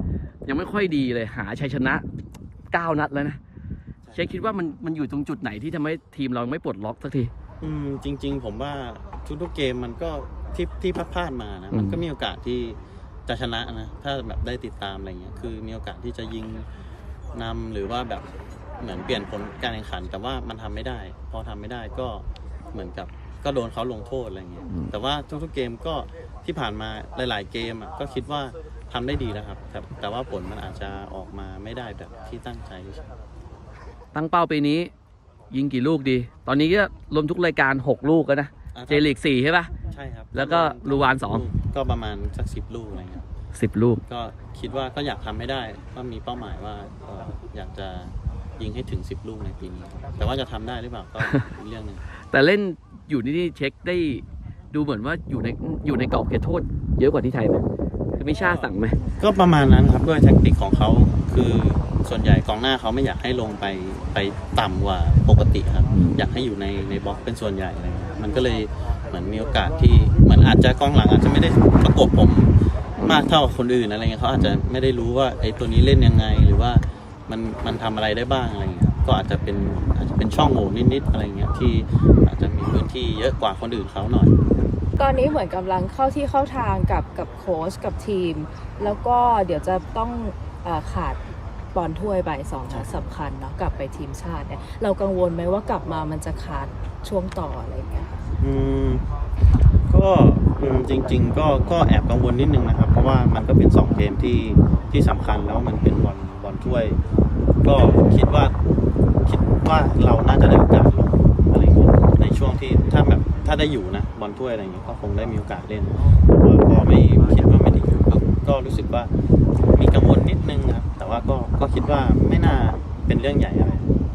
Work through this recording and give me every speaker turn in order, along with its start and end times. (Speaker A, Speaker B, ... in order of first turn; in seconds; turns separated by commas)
Speaker A: 0.5-2.0, Speaker A: 2.7-3.4, Speaker B: 4.0-4.4, Speaker A: 4.1-7.3, Speaker B: 7.6-16.7, Speaker A: 11.7-12.0, Speaker B: 17.3-18.2, Speaker B: 18.8-33.0, Speaker A: 34.1-34.9, Speaker A: 35.5-39.7, Speaker B: 38.7-39.1, Speaker B: 39.9-43.3, Speaker A: 40.3-41.5, Speaker A: 43.5-44.0, Speaker B: 44.1-52.0, Speaker A: 52.3-57.6, Speaker A: 58.2-59.0, Speaker B: 59.2-84.3, Speaker A: 65.9-66.2, Speaker A: 73.0-73.3, Speaker C: 85.0-91.2, Speaker C: 91.7-98.1, Speaker B: 92.7-93.0, Speaker B: 98.4-99.0, Speaker B: 99.9-107.0, Speaker B: 107.6-108.5, Speaker B: 109.2-119.1, Speaker B: 119.8-123.9